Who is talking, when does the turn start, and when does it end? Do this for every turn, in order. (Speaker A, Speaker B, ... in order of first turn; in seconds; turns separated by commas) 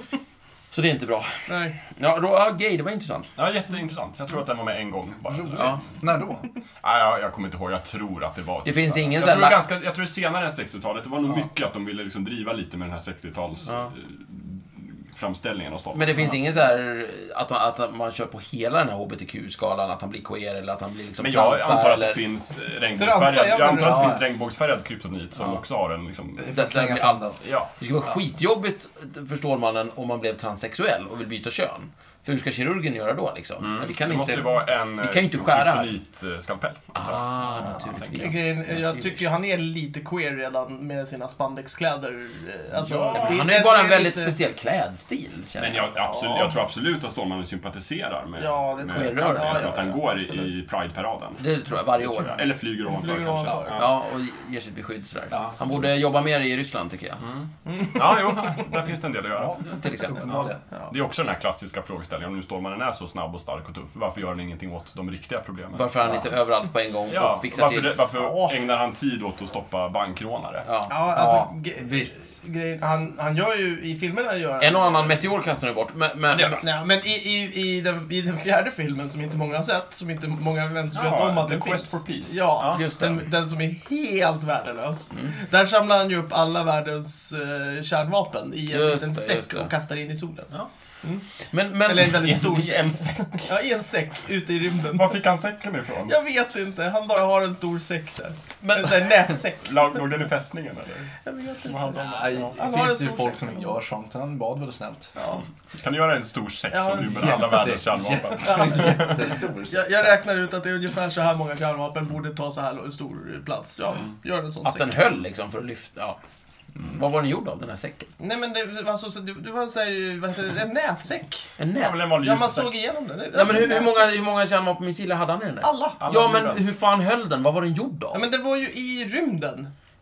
Speaker A: 0.7-3.3, Speaker B: 1.5-1.8, Speaker C: 3.4-5.9, Speaker D: 5.3-6.5, Speaker A: 5.5-5.8, Speaker C: 6.8-16.3, Speaker A: 8.6-9.6, Speaker A: 15.9-22.2, Speaker C: 21.2-26.5, Speaker B: 22.9-24.1, Speaker D: 23.7-24.2, Speaker D: 26.4-27.4, Speaker A: 26.5-35.9, Speaker C: 27.4-27.7, Speaker C: 33.6-38.5, Speaker A: 36.9-39.2, Speaker B: 38.1-44.4, Speaker C: 42.7-43.4, Speaker A: 43.1-45.9, Speaker C: 45.6-51.4, Speaker B: 46.1-46.5, Speaker B: 48.4-50.5, Speaker A: 48.9-49.8, Speaker A: 51.4-52.4, Speaker C: 52.0-53.9, Speaker B: 52.8-53.9, Speaker A: 53.7-57.2, Speaker C: 57.2-59.6, Speaker B: 57.6-58.6, Speaker D: 59.3-60.6, Speaker A: 59.6-60.5, Speaker C: 60.2-66.2, Speaker A: 65.7-68.0, Speaker C: 67.1-70.7, Speaker B: 68.2-68.6, Speaker A: 70.6-71.5, Speaker B: 70.9-75.2, Speaker D: 71.1-72.4, Speaker A: 74.6-76.6, Speaker C: 76.3-76.6, Speaker B: 76.6-91.2, Speaker C: 80.9-82.8, Speaker A: 82.7-83.2, Speaker A: 88.7-89.7, Speaker A: 91.5-92.3, Speaker B: 91.9-95.2, Speaker C: 92.0-93.5, Speaker C: 94.9-96.2, Speaker B: 96.0-100.0, Speaker A: 98.6-99.1, Speaker C: 99.6-102.6, Speaker B: 101.2-103.8, Speaker D: 102.0-105.1, Speaker B: 105.2-105.4, Speaker C: 105.7-109.3, Speaker B: 106.7-107.7, Speaker D: 107.0-110.1, Speaker B: 108.4-114.9, Speaker A: 114.6-116.2, Speaker A: 116.8-118.1, Speaker B: 118.2-121.5, Speaker A: 121.6-122.0, Speaker C: 121.7-122.7, Speaker B: 122.2-124.1, Speaker A: 123.3-128.2, Speaker B: 125.6-126.0, Speaker C: 126.0-126.6, Speaker B: 128.1-129.7